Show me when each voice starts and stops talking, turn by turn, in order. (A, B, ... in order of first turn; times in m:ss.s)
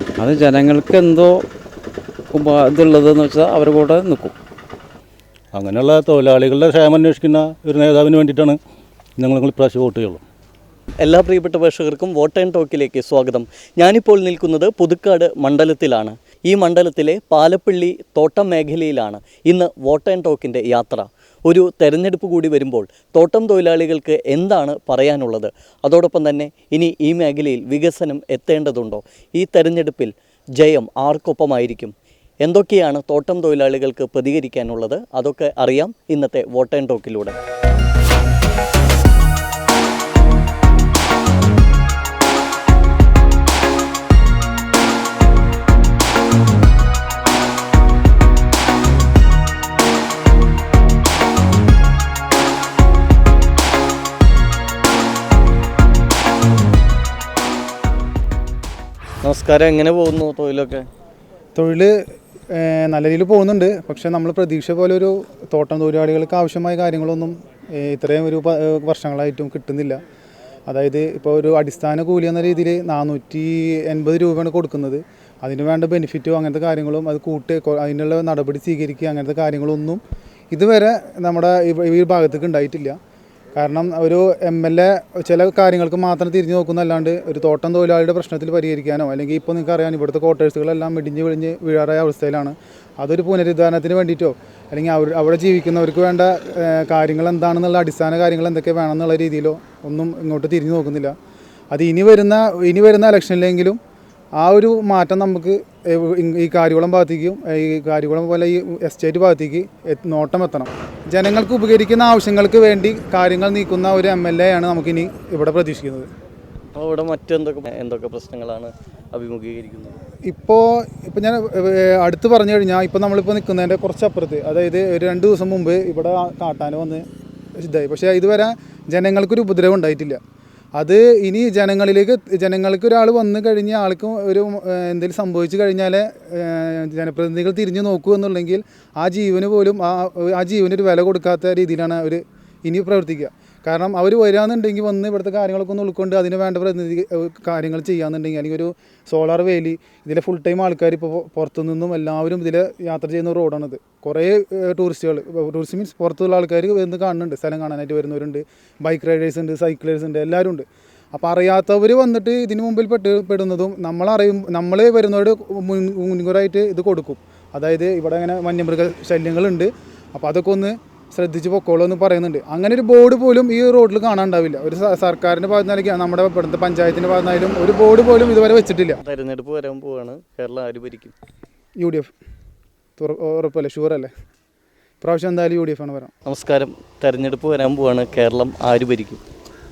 0:00.2-0:01.4 A
0:02.3-0:04.3 A
0:05.6-0:08.6 B
0:09.2-0:10.2 B
0:11.0-0:37.4 C
0:59.2-1:00.9 C
1:01.6-1:01.9 D
1:02.5-1:10.0 D
1:10.7-1:20.0 D
1:20.5-1:23.0 D
1:23.6-1:41.2 D
1:41.7-1:43.8 D
1:44.4-1:56.1 D
1:56.8-2:00.0 C
2:00.3-2:07.0 D
2:07.6-2:10.2 D
2:10.8-2:59.0 D
2:59.0-3:01.1 C
3:01.8-3:02.1 D
3:03.0-3:04.1 D
3:05.0-3:06.1 D
3:06.3-3:09.2 C